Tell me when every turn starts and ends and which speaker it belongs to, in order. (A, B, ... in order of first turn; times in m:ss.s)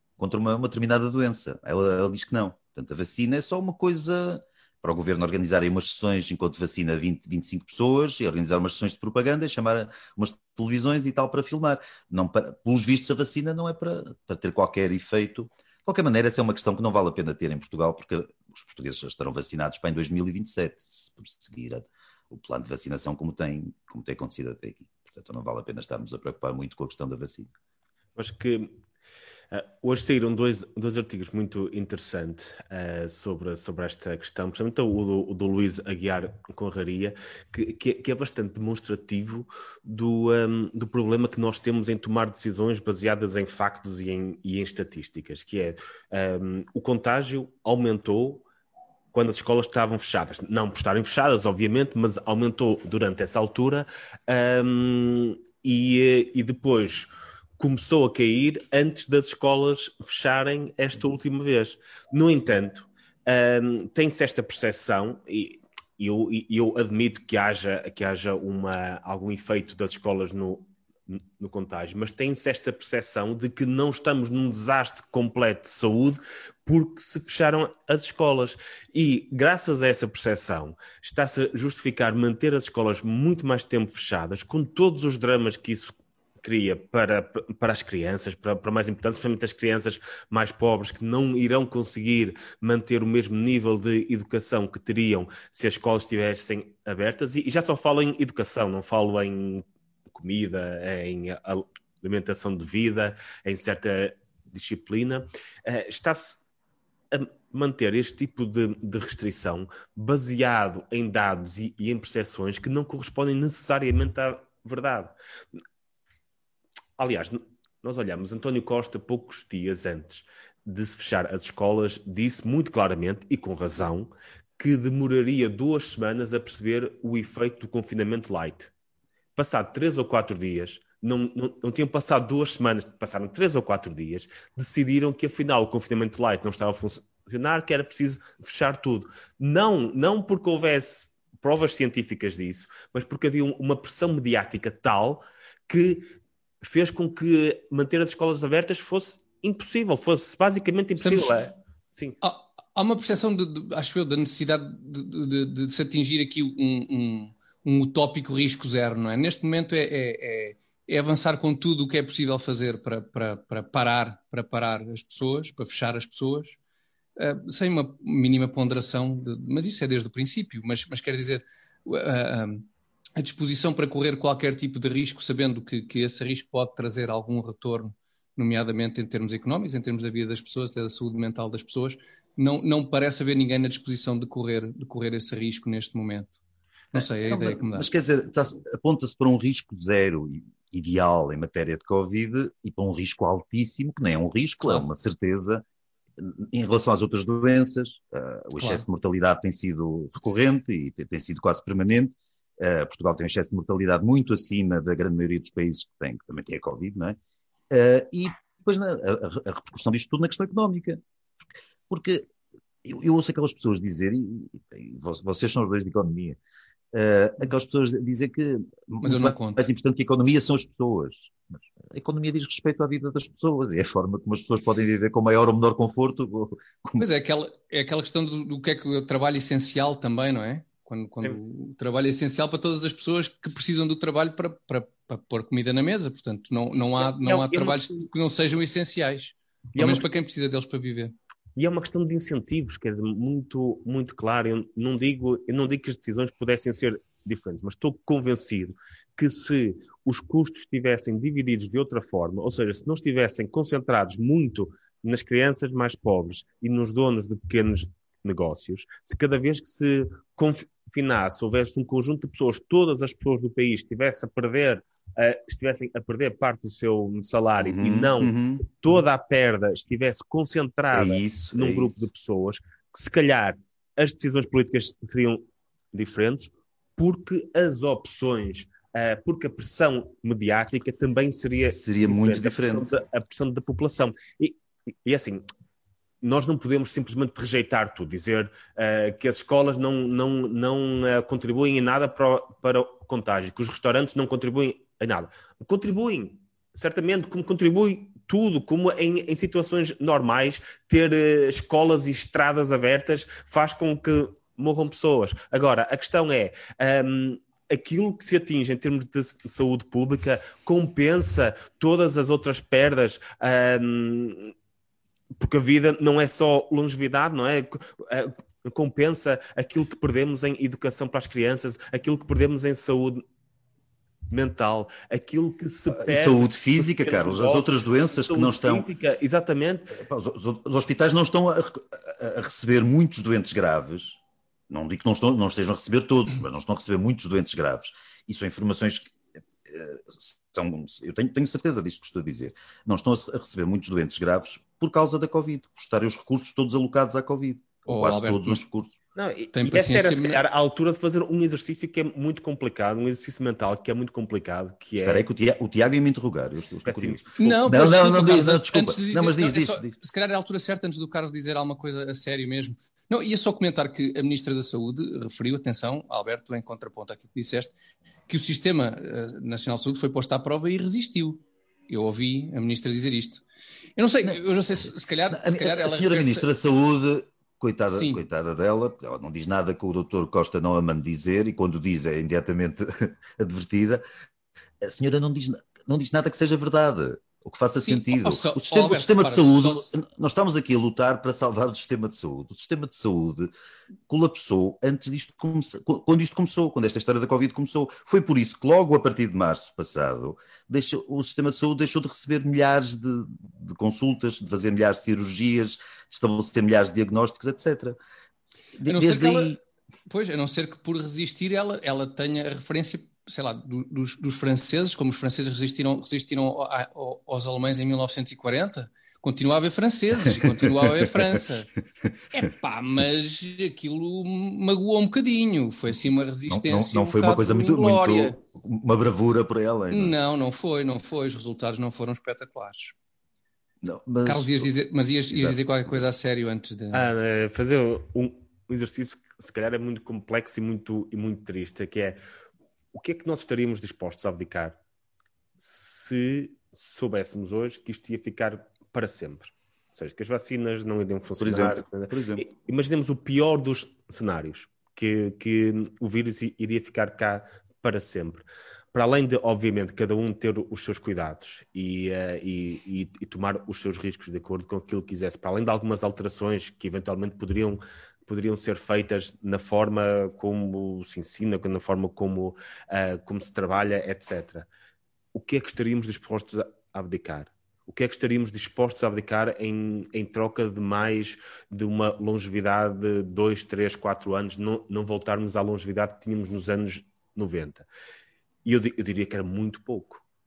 0:00.2-0:27.5 A
0:28.2-0:28.8 B
0:29.5-0:48.4 B
0:49.1-1:46.4 B
1:47.1-1:55.1 B
1:57.0-2:08.7 B
2:09.4-2:26.1 B
2:26.6-2:32.2 B
2:31.0-2:31.4 C
2:32.2-2:46.6 C
2:47.2-3:06.4 C
3:06.9-3:07.9 C
3:07.0-3:15.6 A
3:16.2-3:27.2 A
3:18.6-3:18.8 C
3:27.7-3:31.0 A
3:31.9-3:32.2 A
3:32.8-3:36.4 A
3:36.9-3:47.0 A
3:39.0-3:39.6 C
3:47.0-4:01.1 C
3:57.0-3:58.1 B
3:59.8-4:00.0 B
4:01.6-4:45.4 B
4:27.6-4:28.7 A
4:30.9-4:32.0 A
4:41.6-4:42.9 A
4:46.2-5:14.5 B
5:15.4-5:23.2 B
5:24.3-5:30.0 B
5:25.9-5:28.9 A
5:30.0-5:34.2 A
5:34.7-5:49.0 A
5:47.9-5:48.6 C
5:49.2-5:55.3 B
5:49.5-5:50.4 C
5:55.0-5:59.9 A
5:56.9-5:57.9 B
5:57.4-6:07.7 C
6:08.3-6:13.4 C
6:14.0-6:16.5 C
6:15.3-6:24.0 A
6:17.9-6:18.2 C
6:24.8-6:33.5 A
6:27.7-6:29.9 C
6:34.1-6:48.0 A
6:48.8-7:01.7 C
6:48.8-6:49.6 A
7:00.3-7:01.2 A
7:02.3-7:08.4 C
7:06.5-7:10.2 A
7:09.9-7:13.0 C
7:13.8-7:14.7 A
7:14.2-7:17.1 C
7:15.3-7:16.0 A
7:16.9-7:22.2 B
7:22.9-7:24.8 B
7:25.6-7:54.7 B
7:31.4-7:32.4 A
7:55.3-8:07.9 B
8:08.6-8:10.2 B